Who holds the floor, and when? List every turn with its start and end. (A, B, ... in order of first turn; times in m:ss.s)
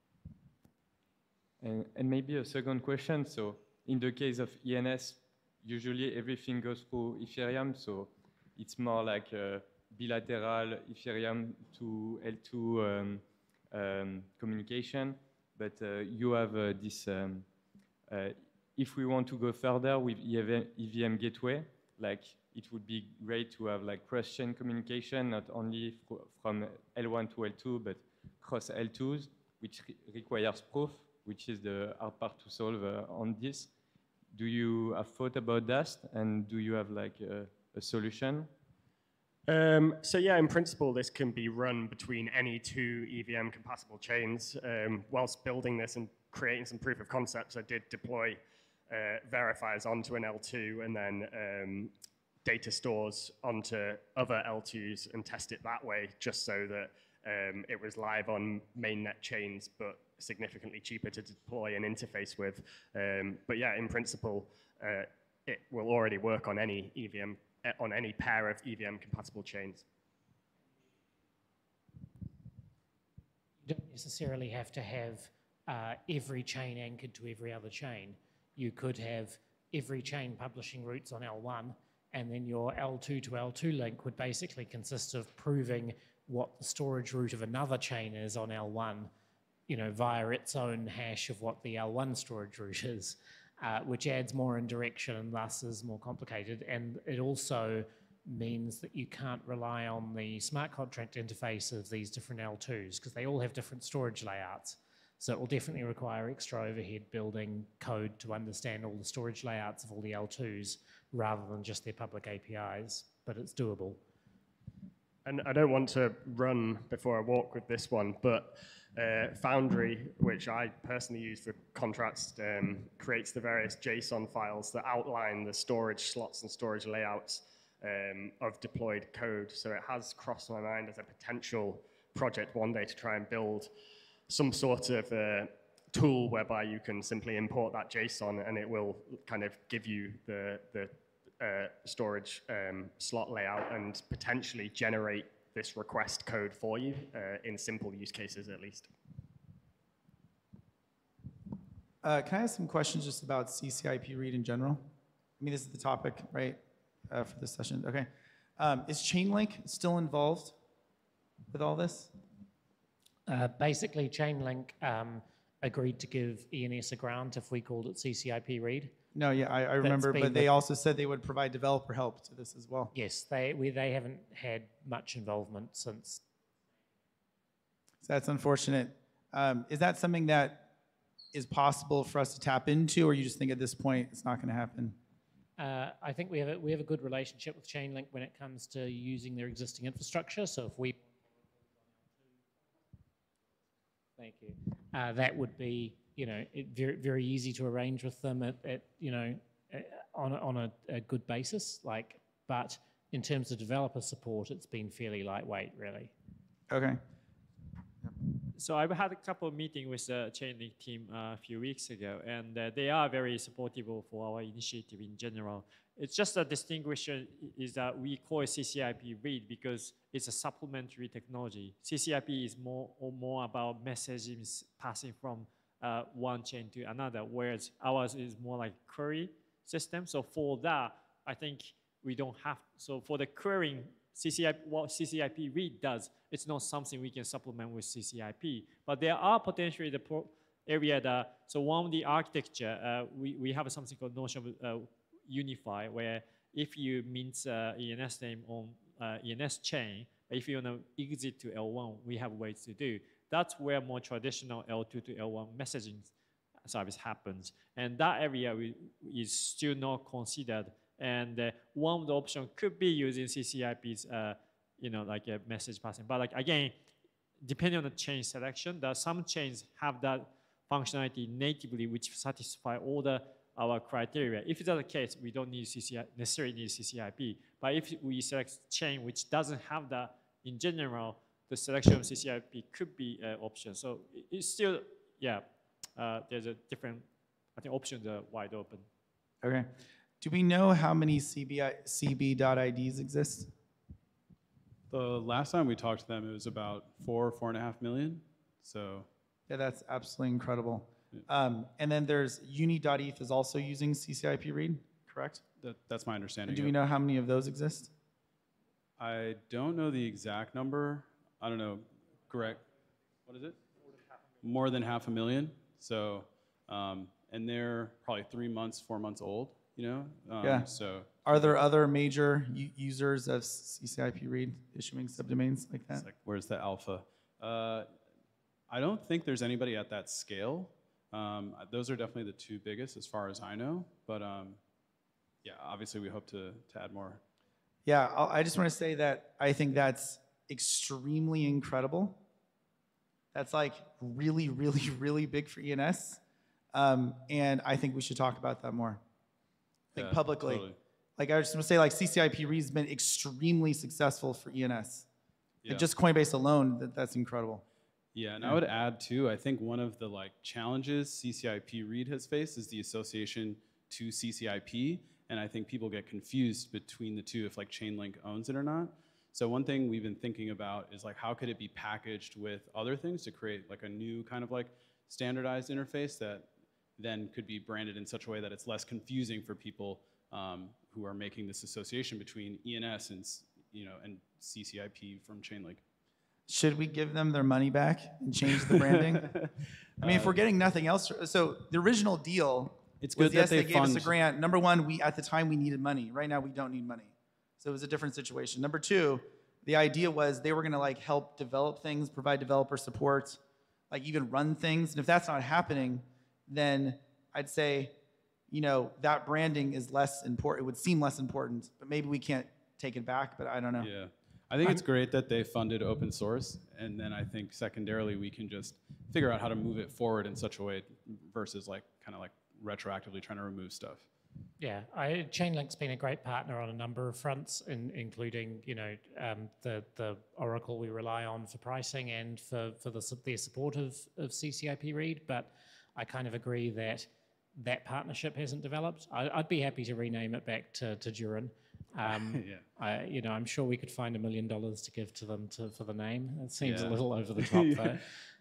0:01.6-0:17.5 A
0:18.1-0:33.7 A
0:34.3-0:38.5 A
0:39.5-0:51.9 B
0:52.4-1:09.8 B
1:13.7-1:29.1 C
1:29.7-1:54.0 C
1:55.3-2:13.7 B
2:14.3-2:28.9 B
2:32.0-2:34.8 D
2:35.4-2:40.6 D
2:41.5-2:42.1 D
2:43.3-2:48.9 C
2:49.1-2:52.9 D
2:49.8-2:50.5 C
2:52.9-2:56.2 C
2:58.0-3:00.7 D
3:01.3-3:05.0 D
3:05.6-3:11.0 C
3:14.2-3:26.1 C
3:26.7-3:27.0 D
3:28.6-4:16.1 E
4:16.7-4:26.7 E
4:27.4-4:45.4 E
4:46.0-4:47.0 E
4:47.6-4:48.8 E
4:49.4-4:49.7 D
4:50.2-4:53.5 D
4:54.9-4:59.1 F
4:59.5-5:05.4 D
5:05.6-5:06.8 F
5:06.5-5:07.9 D
5:09.0-5:12.6 F
5:13.3-5:13.6 F
5:14.4-5:21.5 F
5:20.4-5:20.7 D
5:21.3-5:26.1 D
5:25.9-5:27.9 F
5:28.7-5:34.6 F
5:35.4-5:37.2 F
5:37.9-5:42.2 D
5:43.3-5:46.2 D
5:46.7-5:49.0 D
5:50.0-5:50.8 F
5:50.0-5:55.0 D
5:55.6-5:55.9 F
5:55.7-5:57.6 D
5:58.1-6:25.8 F
6:26.5-6:29.3 D
6:29.0-6:29.5 F
6:30.0-6:30.4 F
6:30.0-6:43.4 D
6:33.0-6:34.2 F
6:43.9-6:48.0 D
6:48.5-6:53.9 D
6:53.8-7:04.1 F
7:04.6-7:28.0 C
7:22.1-7:22.7 F
7:26.6-7:28.0 F